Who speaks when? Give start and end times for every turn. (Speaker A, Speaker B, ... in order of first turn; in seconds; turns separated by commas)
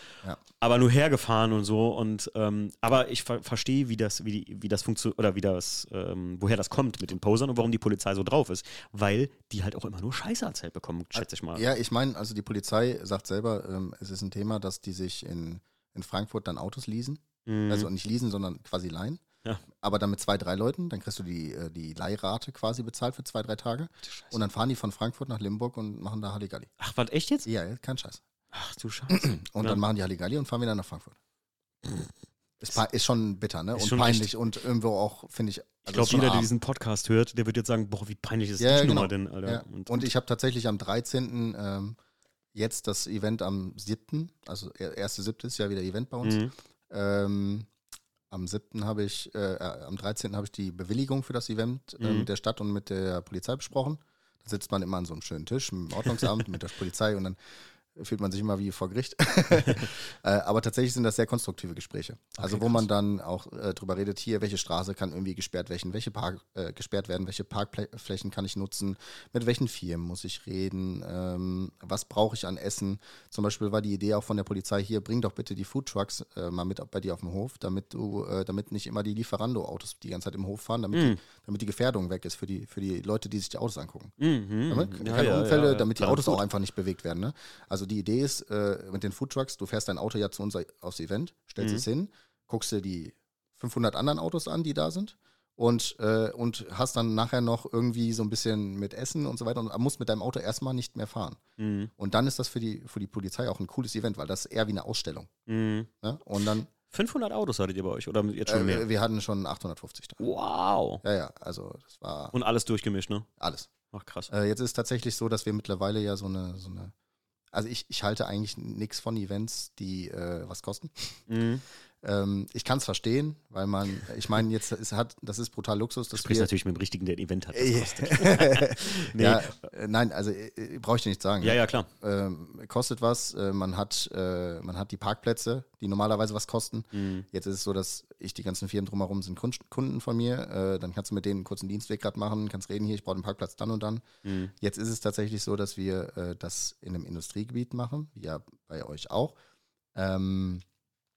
Speaker A: 0.6-11.6, Speaker B: 11.2-19.2, Speaker A: 17.5-17.9, Speaker B: 19.8-26.7, Speaker A: 24.1-24.4, Speaker A: 26.8-27.5, Speaker B: 27.5-28.2, Speaker A: 28.5-29.8, Speaker B: 29.1-31.2, Speaker B: 32.6-36.5, Speaker A: 33.8-34.3, Speaker A: 35.9-40.1, Speaker B: 38.6-42.0, Speaker B: 42.5-47.7, Speaker A: 46.2-46.5, Speaker B: 48.3-57.4, Speaker A: 52.0-52.3, Speaker B: 58.0-84.1, Speaker A: 62.4-62.9, Speaker A: 80.9-81.2, Speaker A: 84.2-86.4, Speaker B: 84.7-101.4, Speaker A: 91.6-91.8, Speaker A: 101.6-101.9, Speaker B: 102.0-105.3, Speaker A: 105.5-105.9, Speaker B: 106.0-106.7, Speaker A: 106.9-108.9, Speaker B: 108.5-110.2, Speaker A: 110.2-111.0, Speaker B: 111.0-112.3, Speaker A: 112.3-113.3, Speaker B: 113.4-113.7, Speaker A: 113.9-114.3, Speaker B: 114.3-116.9, Speaker B: 117.5-121.2, Speaker A: 121.3-121.7, Speaker B: 122.0-126.5, Speaker A: 126.1-129.6, Speaker B: 127.5-144.1, Speaker A: 131.4-131.9, Speaker A: 136.9-137.2, Speaker A: 144.2-144.5, Speaker B: 144.6-149.4, Speaker B: 149.9-150.6